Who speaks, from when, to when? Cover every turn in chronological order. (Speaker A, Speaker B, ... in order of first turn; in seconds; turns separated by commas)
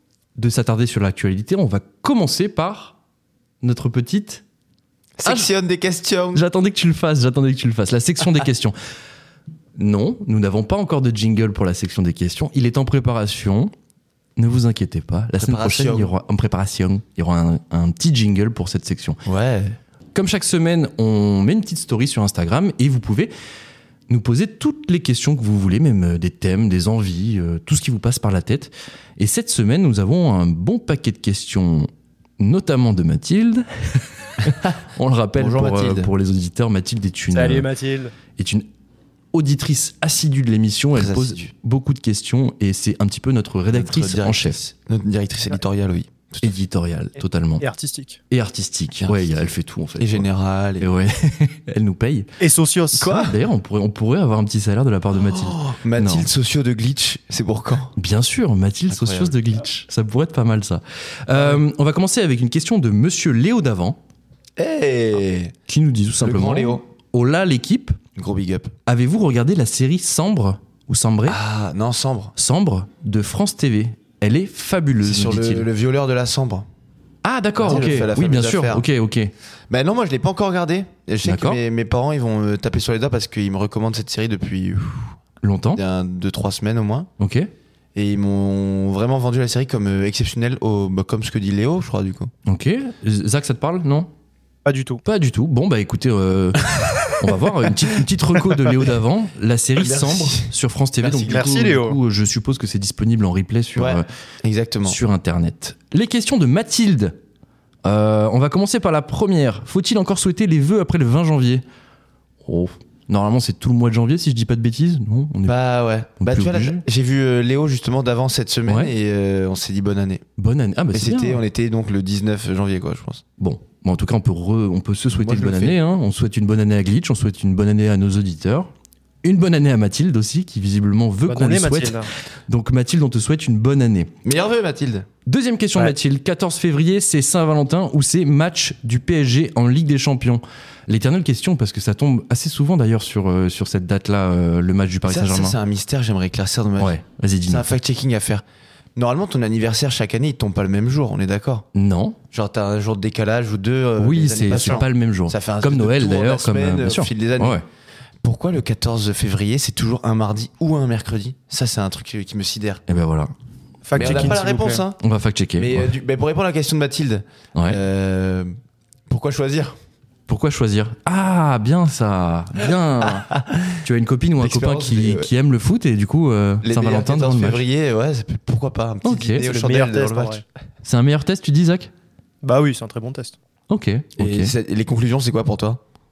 Speaker A: 0.3-3.0, Speaker A: 3.6-4.4, Speaker B: 5.2-6.4, Speaker A: 6.3-8.7, Speaker A: 9.8-13.7, Speaker A: 14.4-19.2, Speaker B: 15.4-16.1, Speaker B: 19.2-19.8, Speaker A: 20.1-23.3, Speaker A: 24.1-33.7, Speaker A: 34.4-37.7, Speaker B: 35.4-36.1, Speaker C: 37.3-38.1, Speaker A: 38.3-38.6, Speaker A: 39.3-44.6, Speaker B: 40.9-41.5, Speaker B: 43.7-46.5, Speaker A: 46.4-47.6, Speaker C: 47.6-48.2, Speaker A: 48.3-50.2, Speaker B: 49.0-50.9, Speaker A: 50.8-52.3, Speaker C: 52.4-53.3, Speaker A: 52.9-56.3, Speaker B: 53.0-53.3, Speaker B: 55.1-57.9, Speaker A: 58.0-64.0, Speaker B: 58.9-59.4, Speaker B: 64.6-65.5, Speaker A: 65.7-68.0, Speaker B: 66.2-66.8, Speaker B: 68.2-68.7, Speaker A: 68.8-71.4, Speaker B: 71.2-72.3, Speaker A: 72.3-75.7, Speaker B: 75.0-76.7, Speaker A: 77.2-79.3, Speaker B: 77.6-78.9, Speaker B: 79.7-85.2, Speaker A: 81.2-81.6, Speaker A: 85.4-85.8, Speaker B: 85.7-87.1, Speaker A: 87.2-87.5, Speaker B: 87.9-92.3, Speaker A: 92.5-94.1, Speaker C: 94.7-95.0, Speaker A: 95.0-104.1, Speaker B: 99.8-100.5, Speaker C: 101.0-102.0, Speaker B: 103.8-105.0, Speaker A: 104.8-107.2, Speaker A: 107.8-111.6, Speaker A: 112.4-115.6, Speaker B: 115.5-120.2, Speaker A: 116.2-116.8, Speaker A: 118.7-118.9, Speaker A: 120.4-121.4, Speaker B: 120.9-123.2, Speaker A: 123.4-128.7, Speaker B: 125.1-125.8, Speaker A: 129.2-134.1, Speaker C: 131.2-132.1, Speaker B: 134.2-135.1, Speaker A: 135.2-145.6, Speaker B: 145.0-148.4, Speaker A: 146.8-147.7, Speaker B: 148.9-151.7, Speaker A: 151.7-152.2, Speaker B: 152.3-157.6, Speaker A: 154.0-157.6, Speaker B: 158.2-162.8, Speaker A: 162.9-163.3, Speaker C: 163.8-164.8, Speaker B: 163.9-165.0, Speaker A: 163.9-164.4, Speaker A: 165.0-165.9, Speaker B: 165.6-168.5, Speaker B: 169.1-169.8, Speaker A: 170.3-177.6, Speaker B: 173.0-173.8, Speaker B: 174.4-175.3, Speaker B: 176.6-180.4, Speaker A: 179.0-179.4, Speaker C: 179.4-180.4, Speaker A: 180.8-181.9, Speaker C: 182.4-183.3, Speaker A: 183.7-184.5, Speaker B: 184.2-185.8